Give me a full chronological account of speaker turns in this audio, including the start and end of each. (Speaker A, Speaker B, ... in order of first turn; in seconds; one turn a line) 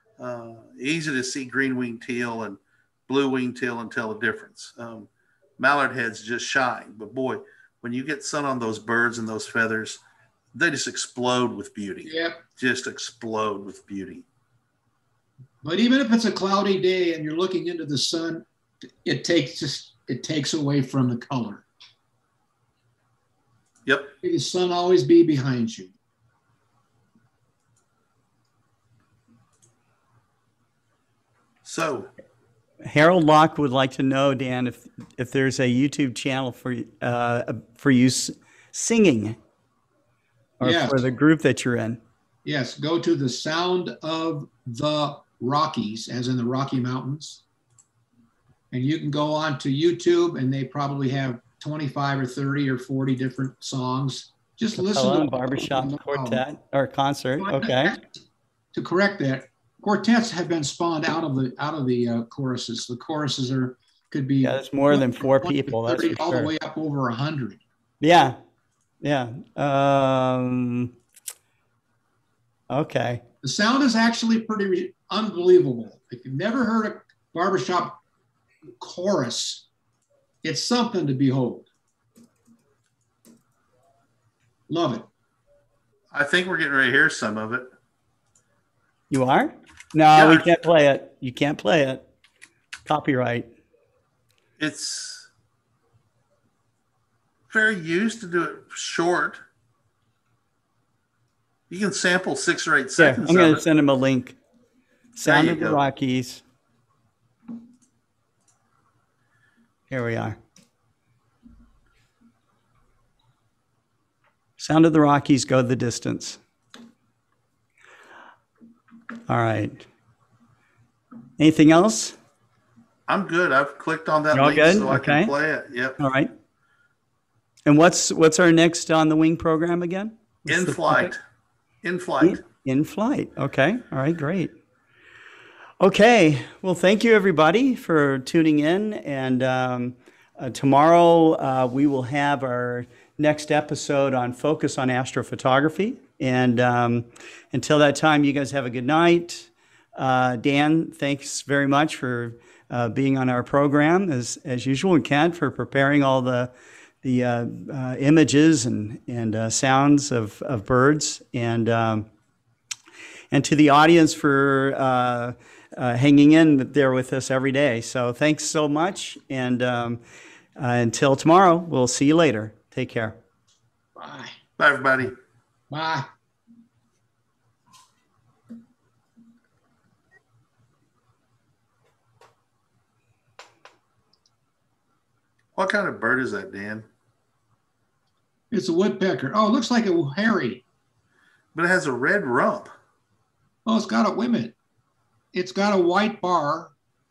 Speaker A: 0.2-10.0
Speaker A: 10.5-14.2
Speaker B: 12.0-12.4
Speaker B: 15.6-18.4
Speaker B: 19.0-21.6
Speaker A: 23.9-24.1
Speaker B: 24.2-25.9
Speaker A: 31.6-32.1
Speaker C: 32.9-39.4
Speaker C: 40.6-42.0
Speaker B: 40.6-41.0
Speaker B: 42.4-47.4
Speaker B: 48.7-56.4
Speaker C: 54.8-58.0
Speaker B: 57.4-58.1
Speaker B: 58.7-67.6
Speaker C: 64.4-66.5
Speaker C: 68.0-68.4
Speaker C: 69.0-70.9
Speaker C: 72.7-73.2
Speaker B: 73.4-78.0
Speaker B: 78.7-79.7
Speaker B: 80.4-81.7
Speaker B: 84.7-85.0
Speaker A: 86.1-87.7
Speaker C: 89.1-92.0
Speaker A: 90.1-90.6
Speaker C: 92.8-93.5
Speaker A: 94.6-95.3
Speaker A: 97.5-99.4
Speaker A: 101.7-103.6
Speaker C: 103.0-104.4
Speaker C: 105.1-106.4
Speaker A: 105.2-105.8
Speaker C: 109.9-110.4
Speaker C: 114.6-116.4
Speaker C: 119.3-119.8
Speaker C: 121.4-122.2
Speaker A: 123.1-126.0
Speaker C: 124.3-125.3
Speaker C: 126.0-126.3
Speaker C: 127.7-131.1
Speaker A: 130.5-131.2
Speaker A: 131.8-132.4
Speaker C: 132.2-134.5
Speaker C: 135.8-162.1
Speaker C: 163.3-170.0
Speaker C: 170.6-173.2
Speaker B: 173.9-174.3
Speaker A: 174.6-175.1
Speaker B: 175.7-176.1
Speaker A: 185.6-186.8
Speaker B: 188.5-190.6
Speaker A: 191.5-192.7
Speaker B: 193.7-194.5
Speaker B: 195.3-196.7